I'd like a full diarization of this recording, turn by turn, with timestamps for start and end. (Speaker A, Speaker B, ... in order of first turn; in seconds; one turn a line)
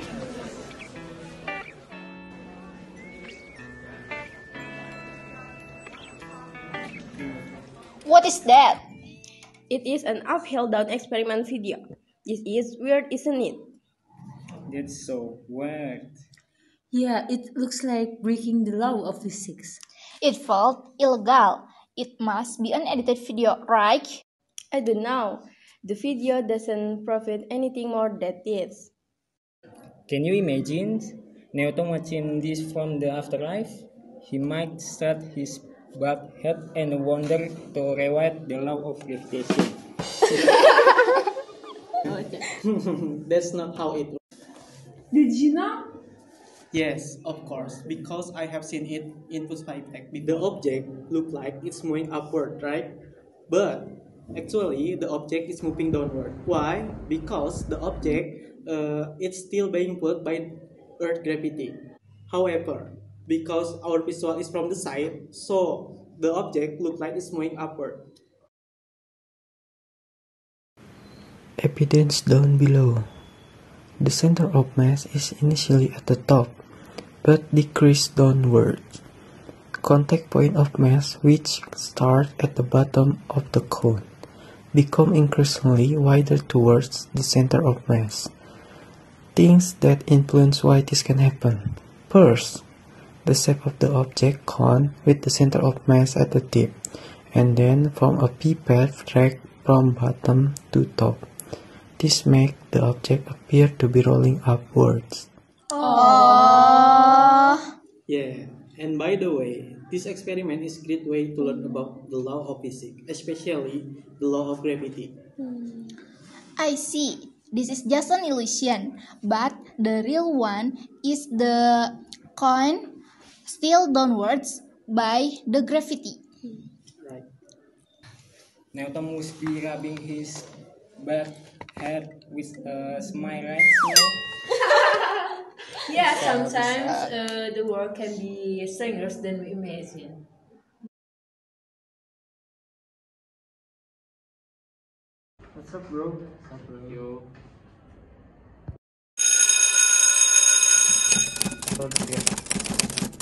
Speaker A: 8.1-8.8
Speaker B: 9.7-13.7
Speaker C: 14.7-16.1
Speaker D: 16.9-19.8
Speaker A: 20.2-24.2
Speaker B: 24.7-28.9
Speaker C: 30.1-39.8
Speaker B: 42.1-42.5
Speaker E: 42.6-44.2
Speaker D: 45.1-45.9
Speaker E: 46.7-52.9
Speaker E: 53.5-68.1
Speaker F: 71.6-73.1
Speaker F: 74.0-76.5
Speaker F: 77.2-79.0
Speaker F: 79.8-84.0
Speaker F: 84.7-88.3
Speaker F: 89.3-92.6
Speaker F: 93.2-96.8
Speaker F: 97.3-101.3
Speaker F: 102.0-105.3
Speaker A: 105.7-107.6
Speaker E: 108.1-115.2
Speaker A: 116.6-122.9
Speaker A: 123.5-126.2
Speaker E: 127.0-127.3
Speaker C: 128.7-130.5
Speaker C: 131.0-134.2
Speaker D: 135.8-140.2
Speaker C: 136.2-136.8